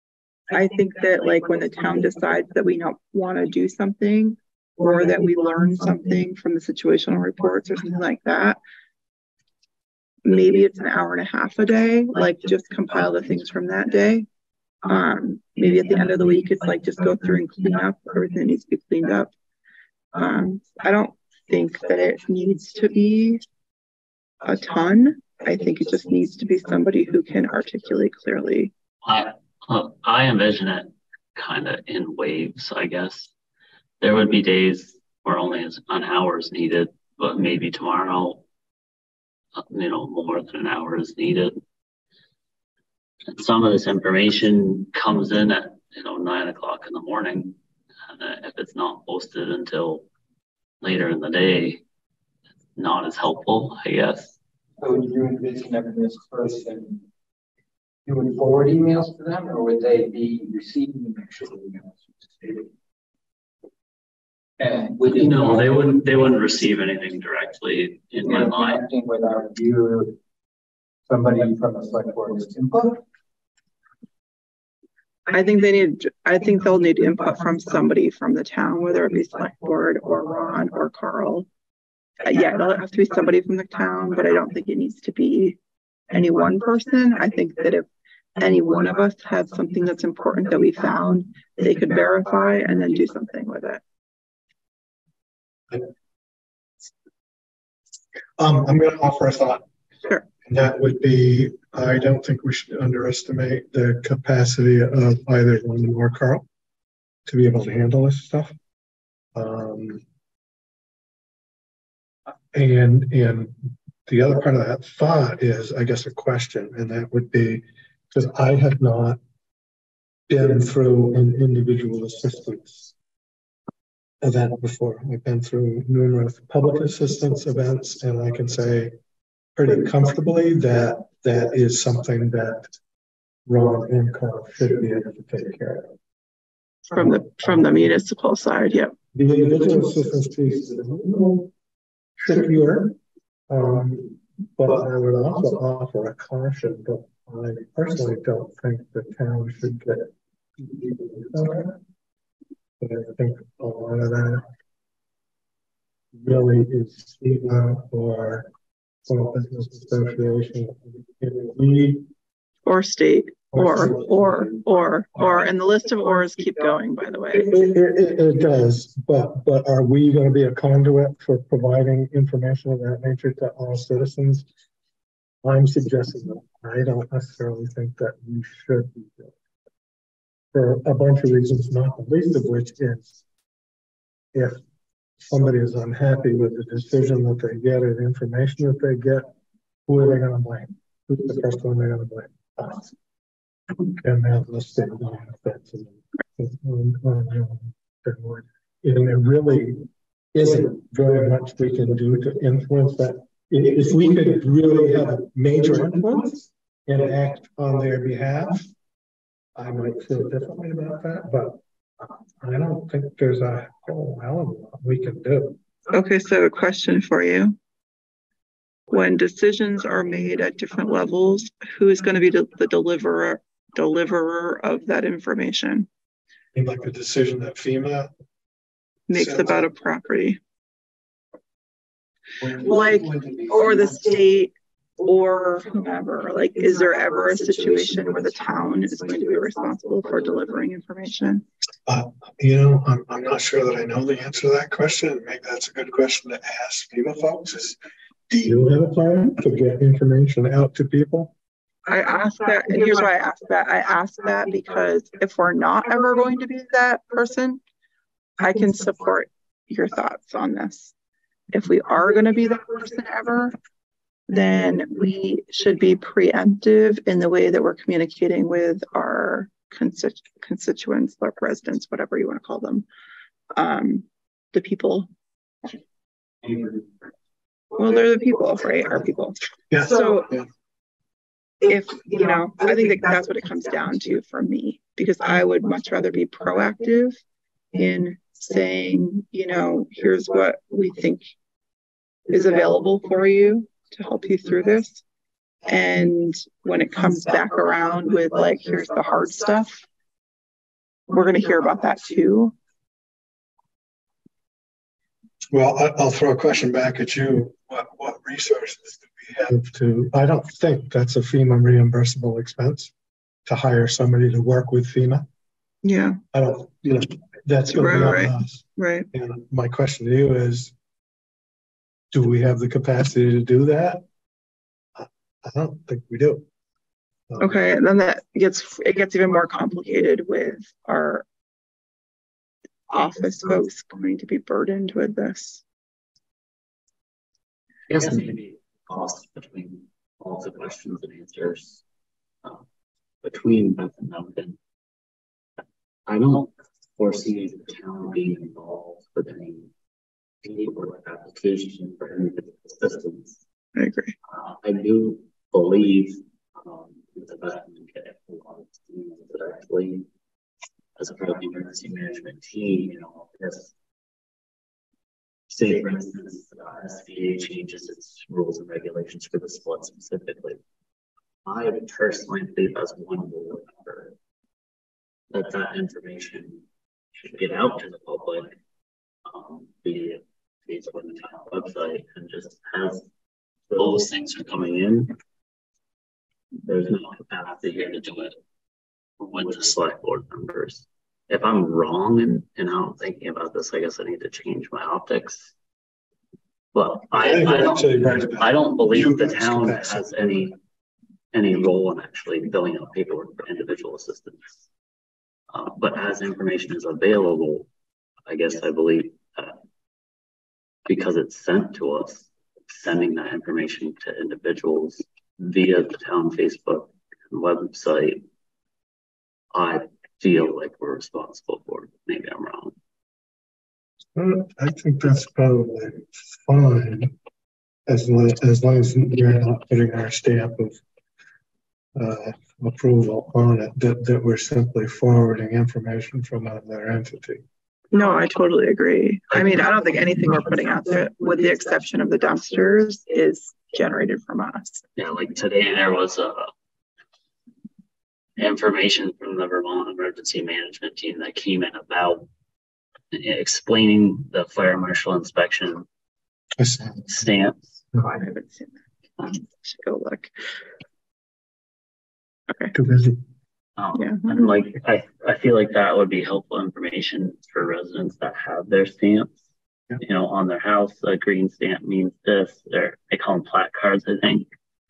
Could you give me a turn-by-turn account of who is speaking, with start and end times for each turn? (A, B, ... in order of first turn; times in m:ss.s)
0:00.5-0:08.6 A
0:10.2-0:14.3 A
0:14.8-0:19.3 A
0:20.1-0:23.4 A
0:24.4-0:28.7 A
0:29.0-0:33.3 B
0:34.0-0:38.4 B
0:39.6-0:41.6 B
0:43.3-0:47.6 B
0:48.1-0:50.1 B
0:50.8-0:51.8 B
0:52.8-0:54.4 B
0:54.8-0:57.0 C
0:58.0-1:02.7 C
1:04.6-1:06.3 C
1:05.1-1:08.8 B
1:08.2-1:10.2 C
1:11.1-1:13.0 C
1:15.3-1:21.5 A
1:22.2-1:25.6 A
1:26.1-1:33.8 A
1:38.4-1:39.6 D
1:40.4-1:46.4 D
1:47.3-1:48.6 D
1:49.4-1:50.0 D
1:52.5-1:53.6 D
1:54.1-1:59.2 D
2:00.3-2:02.9 D
2:04.2-2:08.9 D
2:09.6-2:12.7 D
2:13.5-2:15.9 D
2:16.9-2:18.9 A
2:16.9-2:17.8 D
2:19.1-2:21.5 D
2:22.2-2:23.0 D
2:23.5-2:31.8 D
2:32.8-2:34.5 D
2:36.2-2:38.5 D
2:39.1-2:42.1 D
2:42.7-2:47.6 A
2:43.5-2:44.2 D
2:47.3-2:54.5 D
2:55.4-2:59.4 D
3:00.5-3:03.2 D
3:04.3-3:04.6 D
3:05.3-3:09.3 D
3:09.9-3:13.0 D
3:13.9-3:28.7 D
3:29.6-3:35.6 D
3:35.9-3:37.6 A
3:38.9-3:45.9 A
3:46.5-3:48.1 D
3:49.1-3:50.4 A
3:49.1-3:49.6 D
3:52.4-3:53.0 D
3:52.6-4:01.4 A
4:01.9-4:07.8 D
4:08.3-4:11.3 D
4:11.9-4:17.6 A
4:18.4-4:20.9 A
4:21.5-4:23.5 A
4:24.3-4:32.9 A
4:33.5-4:35.1 A
4:36.4-4:36.9 C
4:37.8-4:40.3 A
4:39.7-4:40.5 D
4:41.6-4:47.2 A
4:47.7-4:51.3 A
4:52.3-4:55.0 A
4:55.7-4:59.8 A
5:01.1-5:02.6 A
5:05.5-5:12.9 D
5:13.5-5:15.3 D
5:15.8-5:16.2 A
5:16.3-5:20.7 D
5:17.7-5:19.1 A
5:22.1-5:24.0 D
5:25.0-5:26.5 D
5:27.3-5:27.6 D
5:27.4-5:31.3 A
5:32.9-5:35.6 A
5:37.9-5:41.8 B
5:43.2-5:44.6 B
5:46.1-5:49.7 B
5:50.4-5:53.4 B
5:53.8-5:54.2 A
5:54.3-6:00.1 B
6:01.0-6:03.7 B
6:05.5-6:10.6 B
6:11.5-6:14.2 B
6:15.3-6:16.6 B
6:17.2-6:18.6 B
6:19.3-6:23.0 B
6:23.7-6:25.2 B
6:26.6-6:28.4 B
6:29.2-6:35.5 B
6:36.7-6:40.6 B
6:37.2-6:40.2 D
6:41.3-6:44.6 B
6:45.5-6:47.7 B
6:48.3-6:49.6 B
6:50.9-6:58.2 B
6:59.5-7:02.7 B
7:04.2-7:07.2 D
7:07.9-7:10.8 D
7:12.0-7:17.4 D
7:17.9-7:24.8 A
7:25.0-7:26.5 B
7:28.4-7:32.3 B
7:33.1-7:35.9 B
7:36.6-7:37.1 D
7:37.1-7:37.8 B
7:38.0-7:40.3 A
7:42.7-7:43.2 D
7:43.8-7:49.4 B
7:44.0-7:44.4 A
7:50.0-7:54.5 B